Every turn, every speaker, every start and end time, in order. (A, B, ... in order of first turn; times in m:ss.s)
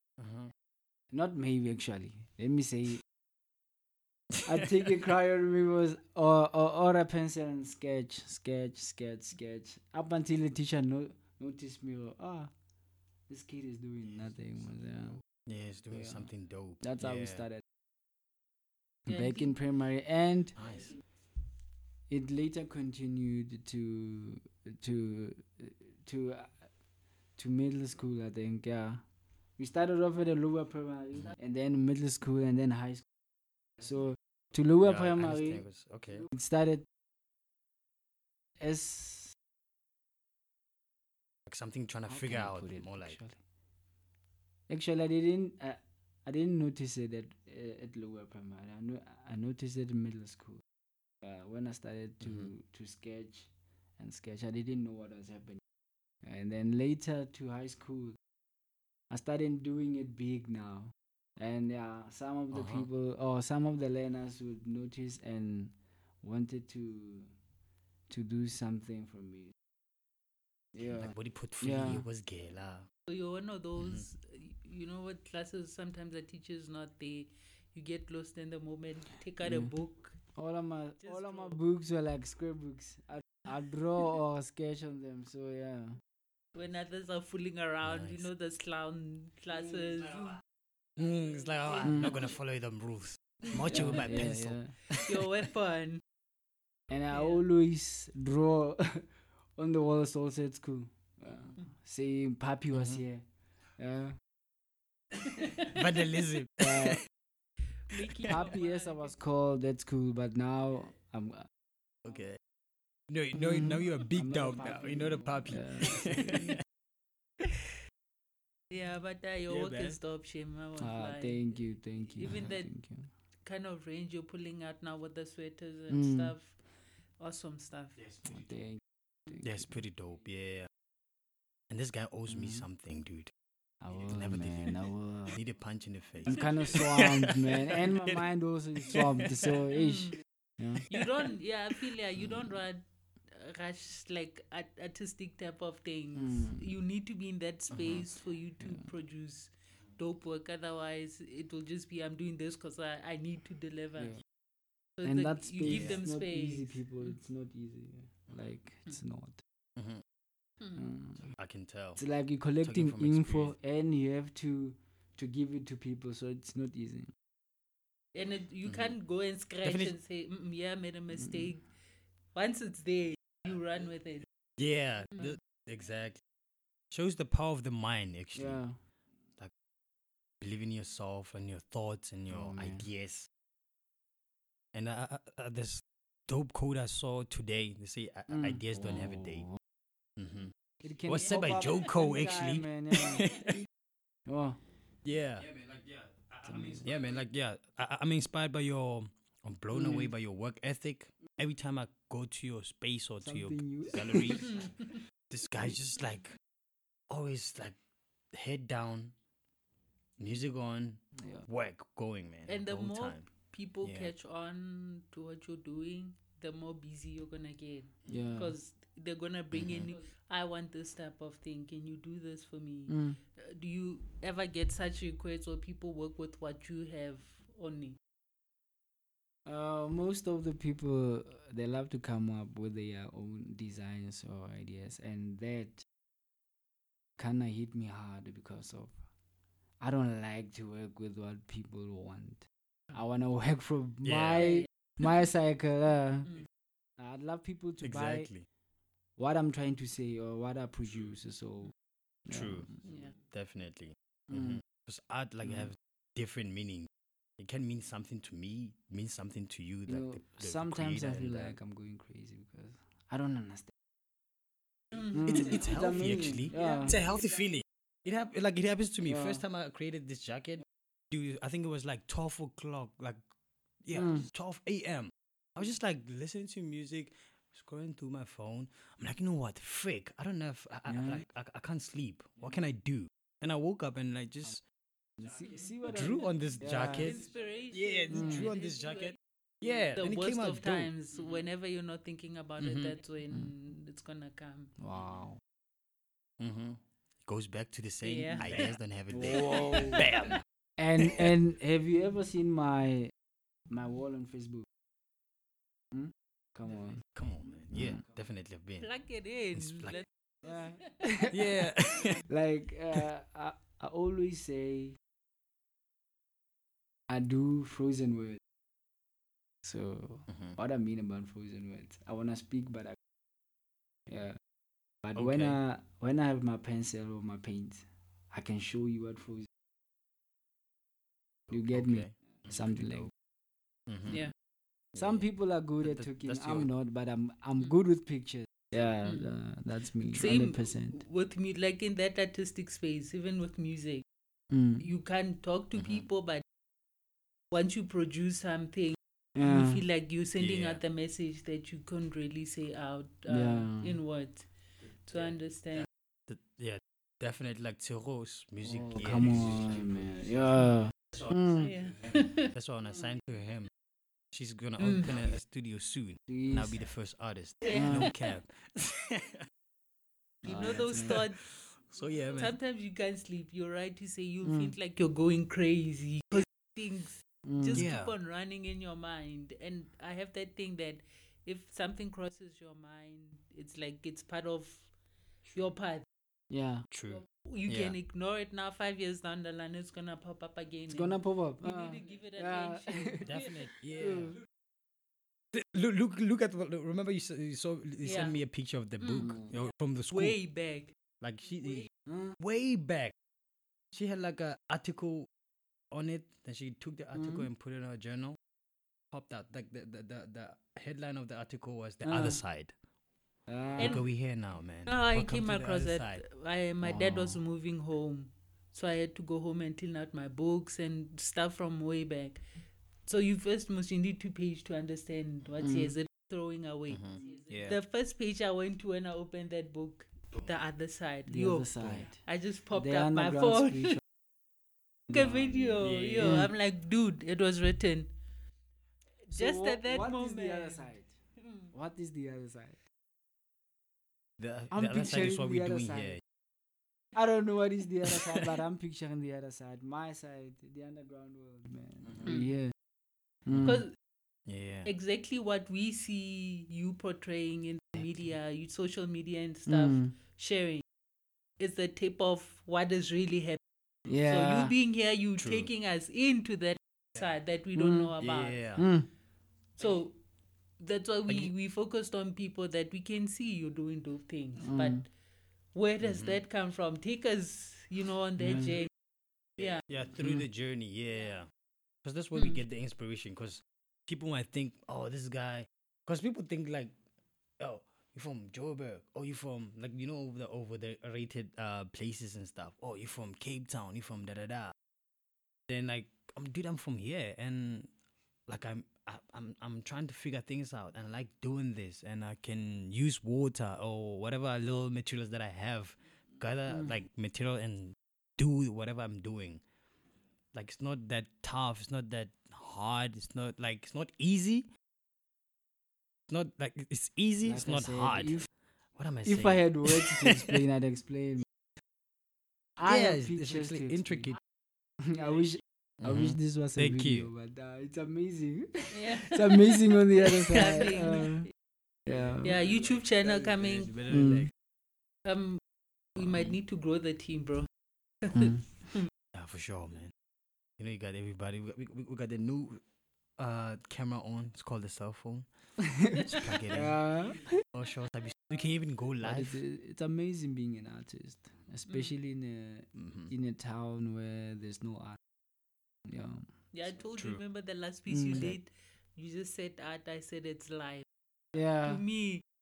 0:00.2-0:00.5 A
0:01.1-0:03.0 B
0:04.4-0:12.5 B
0:13.3-0:15.2 B
0:15.4-0:17.4 A
0:15.9-0:16.3 B
0:16.8-0:17.6 B
0:19.1-0:20.6 B
0:19.1-0:19.5 C
0:20.6-0:20.9 A
0:22.1-0:26.6 B
0:27.4-0:29.0 B
0:29.6-0:33.1 B
0:33.8-0:35.6 B
0:34.8-0:36.3 A
0:36.2-0:36.9 B
0:38.6-0:39.4 B
0:41.5-0:43.2 A
0:42.1-0:43.4 B
0:44.7-0:50.6 B
0:51.2-0:55.6 B
0:52.2-0:52.5 A
0:56.2-0:58.2 B
0:59.1-1:07.3 B
1:02.5-1:02.9 A
1:08.1-1:09.5 B
1:10.7-1:12.0 B
1:11.0-1:12.9 A
1:13.1-1:20.2 C
1:13.8-1:14.0 A
1:19.4-1:19.7 B
1:20.4-1:26.0 B
1:21.0-1:21.6 C
1:26.6-1:30.4 C
1:27.8-1:28.3 A
1:31.0-1:35.2 A
1:31.8-1:32.2 B
1:33.5-1:34.2 C
1:33.5-1:34.7 B
1:34.9-1:36.0 C
1:36.9-1:43.2 B
1:37.1-1:37.4 C
1:42.7-1:43.0 A
1:43.8-1:44.2 B
1:45.2-1:45.7 C
1:45.6-1:47.0 A
1:46.6-1:47.0 B
1:47.9-1:49.1 C
1:48.3-1:51.5 B
1:52.0-1:52.4 A
1:53.1-1:56.6 A
1:53.4-1:56.5 B
1:58.7-2:01.6 C
1:59.5-2:00.0 A
2:00.8-2:03.1 B
2:02.2-2:02.7 C
2:03.4-2:06.6 C
2:05.9-2:06.3 B
2:07.2-2:08.0 C
2:08.2-2:08.8 B
2:09.4-2:10.7 A
2:11.7-2:13.3 A
2:12.3-2:12.7 B
2:13.8-2:15.4 B
2:14.1-2:18.2 A
2:16.3-2:20.8 B
2:18.8-2:19.6 A
2:19.7-2:20.2 C
2:20.9-2:34.2 C
2:26.2-2:26.7 B
2:27.7-2:28.0 A
2:28.6-2:28.9 B
2:35.0-2:37.2 C
2:35.0-2:39.4 B
2:35.6-2:36.0 A
2:39.8-2:40.0 A
2:40.8-2:41.3 B
2:41.3-2:42.0 A
2:42.0-2:47.1 B
2:42.6-2:43.5 A
2:48.1-2:51.7 C
2:48.7-2:48.9 A
2:49.6-2:49.9 A
2:52.3-2:54.3 C
2:54.6-2:56.2 A
2:56.9-2:58.6 A
2:58.4-2:58.8 B
3:00.4-3:03.3 A
3:02.3-3:02.9 B
3:04.7-3:09.5 A
3:08.3-3:09.5 B
3:10.2-3:10.5 A
3:10.8-3:13.3 B
3:11.1-3:13.6 A
3:14.3-3:14.6 B
3:15.0-3:24.7 A
3:16.4-3:16.9 B
3:19.7-3:20.1 B
3:23.2-3:24.4 B
3:24.4-3:25.0 C
3:25.3-3:26.3 A
3:27.1-3:27.8 A
3:28.3-3:29.1 A
3:30.2-3:33.3 A
3:31.2-3:31.5 B
3:32.5-3:48.0 C
3:33.8-3:34.1 A
3:38.1-3:38.6 B
3:39.5-3:39.9 A
3:42.9-3:43.2 B
3:49.5-3:55.8 B
3:57.2-3:59.0 B
3:59.8-4:06.4 B
4:04.0-4:04.5 A
4:04.4-4:04.7 C
4:07.0-4:08.3 B
4:07.8-4:08.5 A
4:09.2-4:11.7 B
4:12.3-4:12.7 B
4:12.3-4:21.5 A
4:12.9-4:13.1 C
4:14.3-4:14.6 B
4:19.9-4:23.7 B
4:25.1-4:27.0 B
4:25.2-4:33.2 A
4:26.6-4:26.8 C
4:29.0-4:29.4 B
4:33.8-4:44.6 A
4:34.0-4:34.3 B
4:40.9-4:41.2 B
4:45.2-4:47.1 B
4:45.9-4:50.9 A
4:46.9-4:49.1 C
4:48.1-4:48.5 B
4:50.0-4:54.8 C
4:52.6-4:52.9 A
4:54.8-4:55.4 B
4:56.4-5:00.4 A
4:58.0-4:58.7 C
4:59.1-5:00.1 B
5:00.8-5:03.1 B
5:01.0-5:01.3 A
5:03.7-5:04.7 B
5:05.9-5:07.0 B
5:07.2-5:08.9 A
5:07.7-5:08.0 B
5:08.8-5:10.7 C
5:09.5-5:10.0 A
5:10.4-5:11.7 B
5:11.3-5:12.2 A
5:12.2-5:15.0 B
5:17.1-5:18.4 B
5:19.6-5:23.0 B
5:20.3-5:20.6 A
5:24.1-5:24.4 B
5:25.0-5:29.5 B
5:25.2-5:25.6 A
5:31.5-5:33.1 B
5:31.5-5:33.1 A
5:33.9-5:34.2 A
5:34.1-5:34.3 C
5:34.9-5:35.2 A
5:35.0-5:41.0 B
5:35.8-5:36.7 A
5:40.1-5:44.0 C
5:44.5-5:44.8 B
5:44.8-5:46.4 C
5:45.8-5:46.1 A
5:47.5-5:54.5 C
5:49.4-5:49.8 B
5:50.4-5:50.8 A
5:53.3-5:54.0 B
5:55.0-5:55.9 C
5:56.3-5:59.9 A
5:58.6-6:01.7 B
6:01.6-6:02.5 C
6:02.5-6:03.7 A
6:04.3-6:09.5 A
6:04.8-6:05.1 C
6:06.3-6:06.8 B
6:07.8-6:08.1 B
6:10.4-6:11.2 B
6:10.4-6:11.4 C
6:10.5-6:12.5 A
6:12.4-6:24.9 C
6:14.4-6:14.7 B
6:17.4-6:17.8 B
6:17.7-6:18.1 A
6:25.5-6:26.1 C
6:26.5-6:26.9 B
6:26.9-6:28.0 A
6:27.3-6:33.5 C
6:30.9-6:33.3 B
6:33.2-6:34.4 A
6:34.0-6:34.4 B
6:35.5-6:40.4 A
6:38.0-6:38.4 C
6:39.0-6:39.4 C
6:39.2-6:39.5 B
6:40.1-6:40.9 C
6:41.2-6:41.9 A
6:42.1-6:42.4 B
6:42.4-6:43.1 A
6:43.9-6:45.3 A
6:45.9-6:48.4 A
6:47.2-6:47.4 B
6:49.1-6:52.7 A
6:52.0-6:52.4 B
6:53.5-6:54.0 B
6:53.8-6:56.2 A
6:53.8-6:54.0 C
6:54.9-7:02.4 C
6:56.8-6:57.4 B
7:03.1-7:14.0 C
7:05.6-7:05.9 B
7:06.9-7:07.8 A
7:11.3-7:12.2 B
7:11.8-7:12.1 A
7:12.7-7:14.0 B
7:15.1-7:18.1 C
7:15.8-7:16.4 A
7:16.2-7:16.5 B
7:19.3-7:21.1 B
7:19.3-7:21.7 C
7:21.7-7:22.8 B
7:24.4-7:26.2 A
7:24.7-7:26.2 B
7:27.2-7:32.7 B
7:32.2-7:32.5 C
7:33.5-7:33.8 B
7:33.6-7:34.0 C
7:34.5-7:34.9 A
7:34.8-7:40.8 C
7:39.7-7:40.1 B
7:41.6-7:43.6 C
7:44.1-7:44.7 B
7:44.2-7:48.6 C
7:45.4-7:45.7 A
7:47.8-7:48.1 B
7:48.2-7:48.9 A
7:48.8-7:49.1 B
7:49.8-7:50.2 C
7:50.8-7:55.1 C
7:54.6-7:55.0 B
7:55.7-7:58.9 C
7:56.0-7:56.4 A
7:58.4-7:58.8 B
7:59.9-8:01.5 A
8:00.2-8:00.4 B
8:02.0-8:06.9 A
8:07.6-8:14.8 A
8:15.7-8:17.9 A
8:18.5-8:29.6 A
8:30.5-8:34.7 A
8:36.3-8:40.6 A
8:37.4-8:38.5 B
8:39.2-8:41.4 B
8:42.8-8:44.3 B
8:42.8-8:44.4 A
8:45.0-8:51.5 B
8:46.0-8:47.3 A
8:48.9-8:49.4 C
8:50.2-8:51.5 C
8:52.1-8:52.6 B
8:52.4-8:54.0 C
8:53.3-8:54.5 A
8:54.1-8:54.5 B
8:55.2-8:55.6 C
8:56.2-8:57.7 C
8:56.3-8:56.5 A
8:58.3-8:59.0 C
8:58.3-8:58.6 B
8:59.3-9:00.1 A
9:00.8-9:02.8 A
9:03.4-9:05.5 A
9:05.8-9:07.6 B
9:06.1-9:07.0 A
9:07.6-9:09.6 A
9:09.2-9:15.2 B
9:13.0-9:13.3 A
9:16.1-9:16.5 B
9:16.7-9:21.1 C
9:17.2-9:17.4 A
9:18.1-9:18.5 B
9:21.5-9:22.0 B
9:21.8-9:22.4 C